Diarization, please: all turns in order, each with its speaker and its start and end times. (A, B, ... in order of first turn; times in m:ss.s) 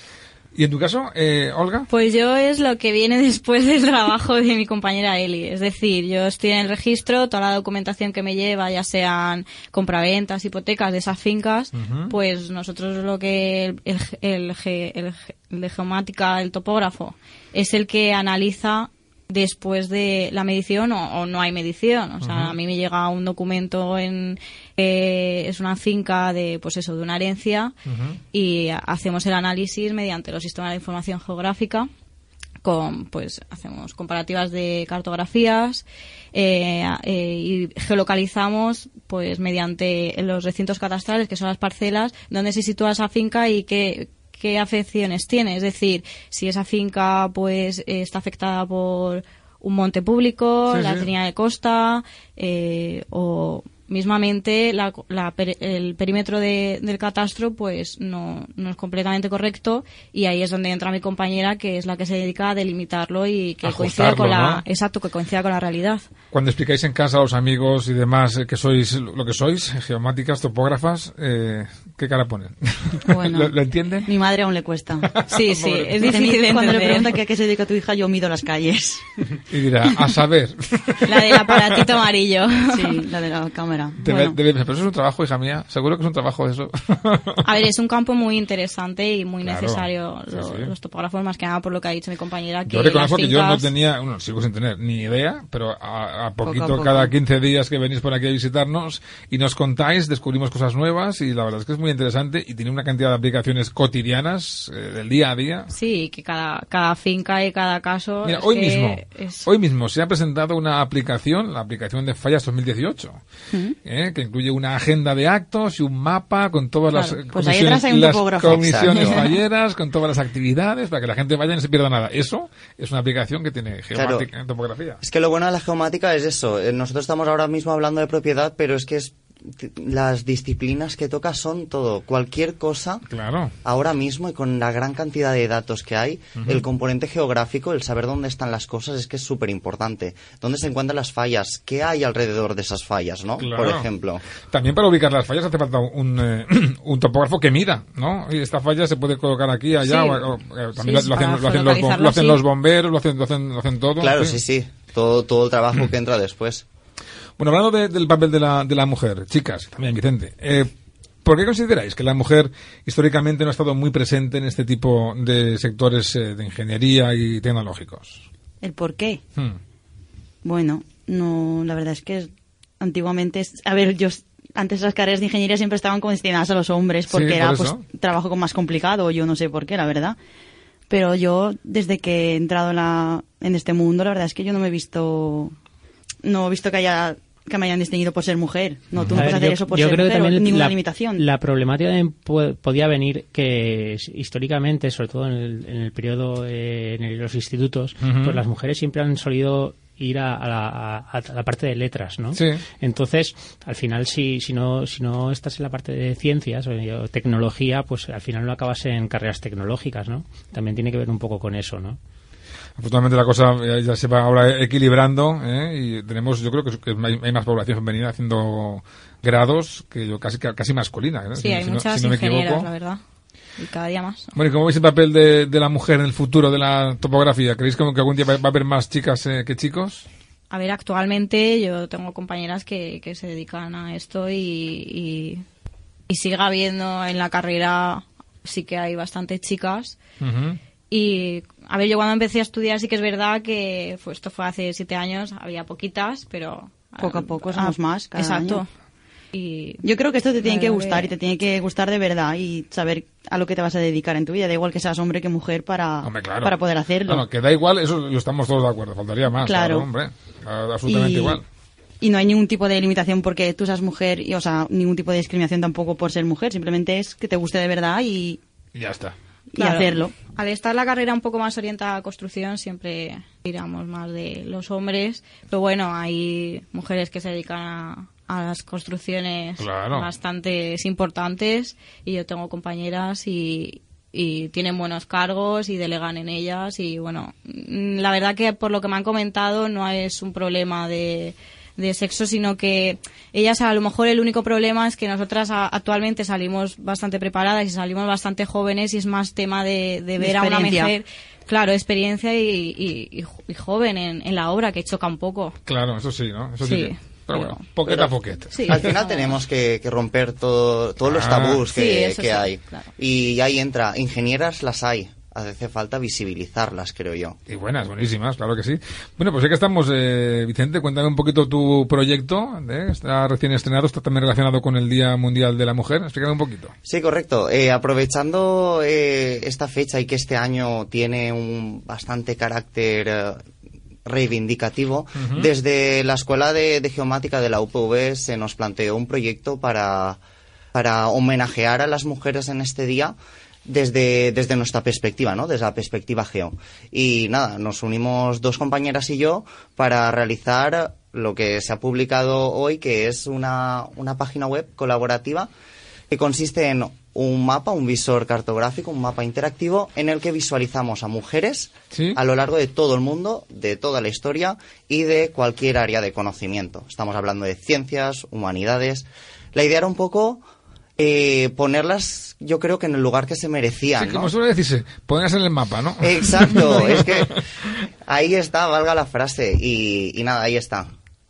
0:00.5-0:01.9 A
0:01.9-0:27.7 B
0:11.7-0:12.1 A
0:22.2-0:22.6 A
0:27.9-0:28.2 A
0:28.3-0:31.9 B
0:32.6-1:06.0 B
0:50.6-0:51.1 A
1:03.6-1:04.6 A
1:06.3-1:14.1 A
1:13.1-1:13.5 C
1:14.0-1:15.2 C
1:15.2-1:15.9 A
1:15.3-1:17.2 B
1:15.9-1:19.1 C
1:19.5-1:21.9 A
1:21.0-1:23.0 B
1:22.7-1:24.4 C
1:24.0-1:27.4 A
1:27.4-1:33.7 B
1:29.4-1:30.7 A
1:32.6-1:45.7 A
1:36.4-1:37.1 C
1:45.7-1:49.5 B
1:48.2-1:53.2 A
1:53.5-1:53.8 C
1:53.8-2:05.0 A
1:57.3-1:59.2 C
1:58.5-1:59.2 D
2:03.9-2:04.2 D
2:05.0-2:13.0 D
2:13.1-2:13.5 A
2:13.6-2:24.2 D
2:16.4-2:16.6 A
2:23.4-2:23.9 A
2:24.4-2:34.4 A
2:29.8-2:30.2 B
2:30.8-2:32.4 B
2:34.0-2:36.6 D
2:37.4-2:40.7 A
2:41.2-2:48.2 A
2:48.6-2:49.2 C
2:50.4-2:52.3 C
2:52.8-3:00.2 C
2:57.1-2:57.8 A
3:00.9-3:05.5 C
3:06.2-3:11.2 C
3:09.0-3:09.3 A
3:09.1-3:32.0 E
3:18.0-3:18.4 A
3:22.3-3:22.6 A
3:32.8-3:42.7 A
3:41.3-3:43.0 B
3:43.6-3:44.3 B
3:44.3-3:50.0 A
3:50.5-3:55.4 B
3:56.1-4:00.0 B
4:00.2-4:00.6 A
4:00.9-4:08.7 B
4:07.0-4:08.6 C
4:09.3-4:09.8 B
4:09.8-4:17.2 C
4:10.4-4:11.1 B
4:16.0-4:16.5 A
4:17.0-4:21.4 A
4:19.4-4:19.9 C
4:20.9-4:21.4 C
4:22.0-4:28.4 C
4:28.7-4:29.1 A
4:29.5-4:30.1 C
4:29.5-5:05.5 B
4:39.6-4:40.1 A
5:00.2-5:00.9 C
5:05.7-5:08.8 A
5:06.6-5:07.7 B
5:08.5-5:09.3 B
5:08.6-5:17.4 D
5:11.0-5:11.6 A
5:11.7-5:12.9 B
5:17.5-5:26.7 A
5:26.8-5:33.4 D
5:34.0-5:40.2 D
5:35.2-5:35.5 A
5:40.7-5:43.1 D
5:43.6-5:55.5 D
5:56.1-6:10.4 D
6:01.9-6:02.2 A
6:11.0-6:14.3 D
6:14.0-6:17.2 A
6:16.0-6:17.4 D
6:18.0-6:20.9 D